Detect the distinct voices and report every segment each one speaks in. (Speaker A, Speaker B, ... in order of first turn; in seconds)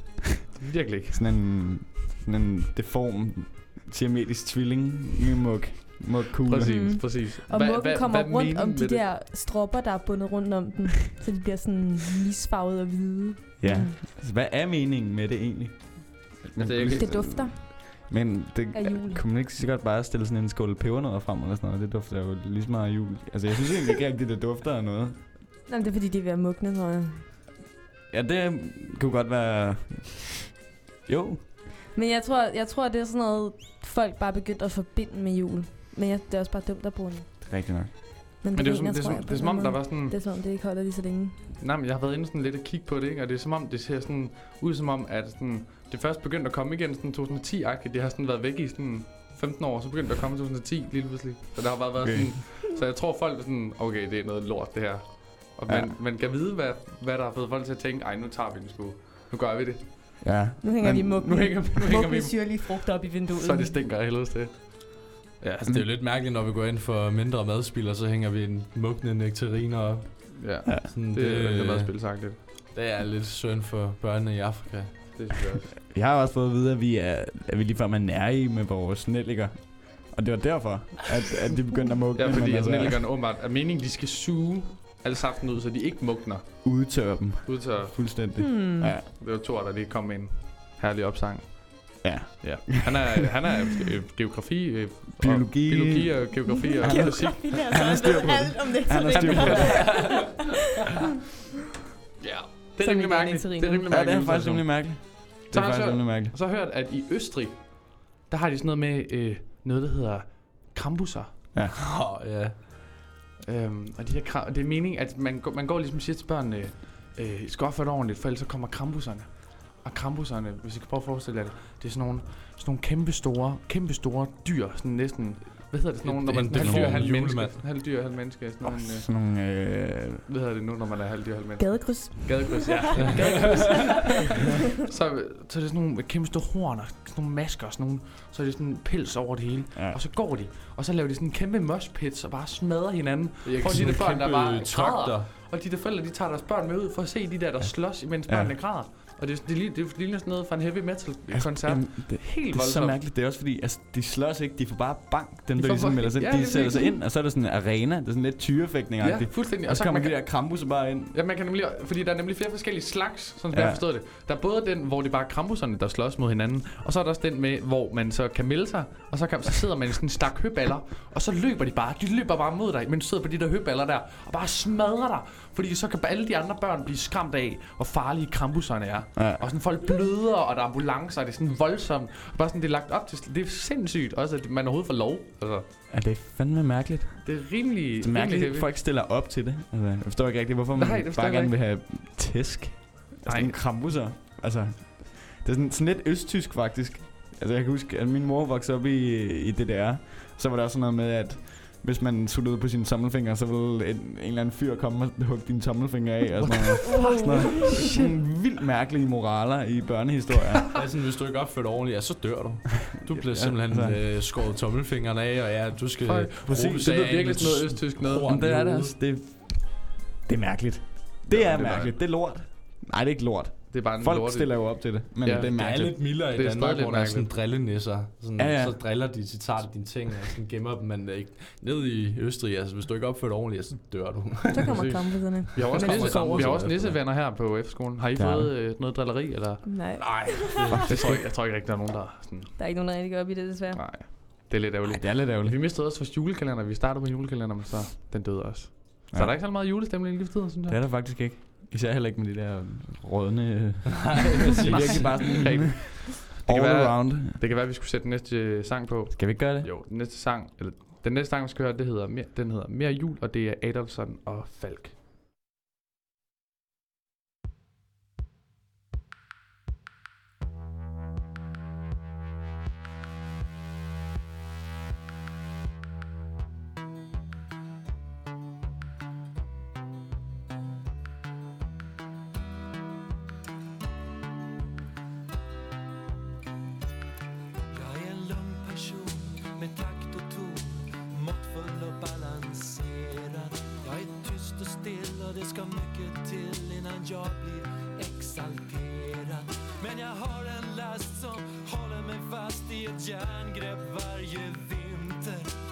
Speaker A: 0.6-1.2, 6.5-9.0, 16.5-17.2, 38.5-40.1, 41.6-60.2, 61.2-65.7, 70.3-72.4, 75.1-75.7, 82.1-86.9, 87.4-88.4, 89.1-97.6, 99.1-99.6, 102.2-111.4, 113.4-129.1, 130.3-133.8, 134.8-153.0, 155.6-156.9, 159.0-185.7, 187.2-188.7, 190.7-191.5, 193.2-194.0, 213.2-213.5, 216.1-218.6, 221.3-222.0, 223.7-227.3, 234.6-242.6, 243.7-250.8, 254.7-264.9
Speaker B: 1.1-6.9, 13.6-25.2, 28.1-30.4, 31.0-31.4, 37.4-38.0, 52.0-52.4, 55.7-55.9, 60.2-61.2, 75.8-83.0, 86.6-89.0, 92.0-93.2, 95.2-100.2, 103.9-106.3, 126.6-127.1, 128.6-130.2, 139.7-140.0, 148.2-148.6, 151.3-161.1, 163.5-163.8, 179.2-179.5, 185.9-210.7, 213.6-214.0, 216.4-216.9, 218.0-226.0, 228.4-228.8, 238.2-238.5, 240.7-241.2, 244.8-245.6, 250.7-257.4, 259.1-259.7
Speaker C: 6.6-14.0, 16.9-17.8, 18.7-19.2, 25.7-27.2, 31.9-37.5, 38.4-41.4, 60.6-63.8, 88.4-89.0, 96.4-100.4, 102.8-103.8, 131.6-134.1, 206.8-208.1, 234.5-236.4, 239.6-240.8, 242.6-243.8
Speaker D: 65.6-71.9, 72.7-75.2, 99.7-100.2, 111.7-112.6, 126.0-127.6, 133.0-133.8, 143.4-145.3, 210.7-218.9, 225.5-237.0, 240.0-241.2, 253.9-255.2
Speaker E: 287.8-288.6, 293.4-295.0, 295.6-296.4, 298.5-299.1, 299.8-305.5